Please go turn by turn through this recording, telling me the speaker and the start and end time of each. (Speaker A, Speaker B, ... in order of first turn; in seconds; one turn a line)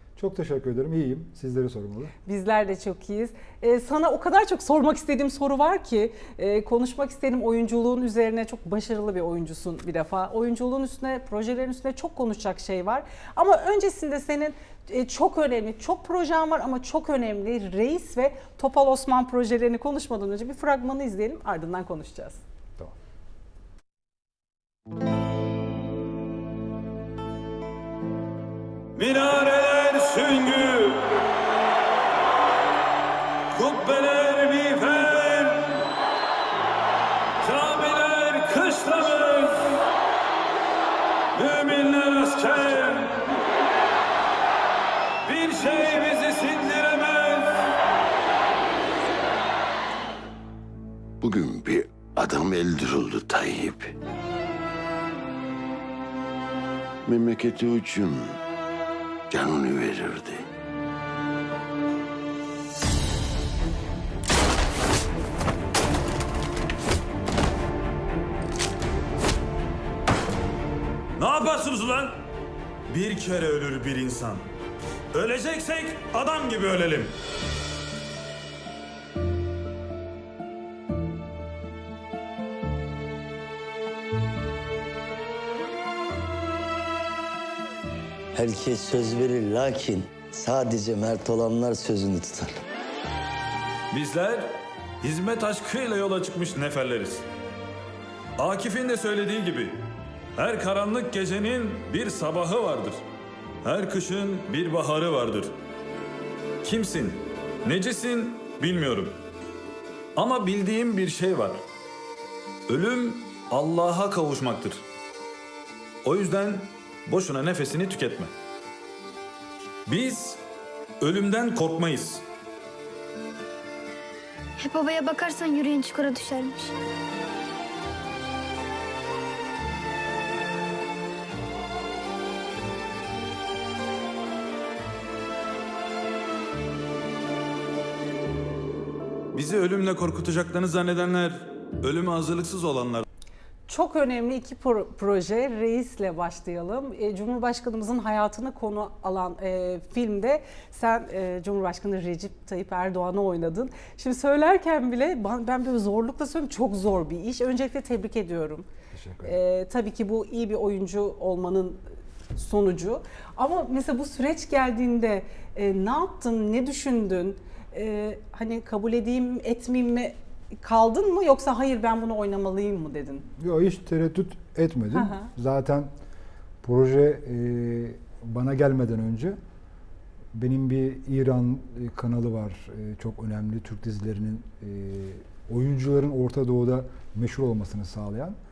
Speaker A: 0.1-2.1
Speaker B: 2.2-22.4
Speaker C: 28.9-31.1
Speaker C: 33.5-35.7
Speaker C: 37.4-39.8
Speaker C: 41.3-43.1
Speaker C: 45.2-47.6
Speaker D: 51.2-53.9
Speaker D: 57.0-58.4
Speaker D: 59.3-60.4
Speaker C: 71.2-72.2
Speaker C: 72.9-74.4
Speaker C: 75.1-77.1
Speaker E: 88.3-92.6
Speaker C: 93.9-97.2
Speaker C: 98.4-99.8
Speaker C: 100.3-103.0
Speaker C: 103.6-105.5
Speaker C: 106.6-109.2
Speaker C: 110.2-111.6
Speaker C: 112.7-114.8
Speaker C: 116.0-118.3
Speaker C: 119.9-120.4
Speaker C: 121.0-122.2
Speaker F: 124.6-126.7
Speaker C: 139.3-143.0
Speaker B: 143.7-158.7
Speaker A: 158.9-159.4
Speaker B: 159.2-161.8
Speaker B: 162.3-173.2
Speaker A: 173.4-175.9
Speaker B: 174.9-175.2
Speaker A: 176.6-179.4
Speaker A: 180.3-188.3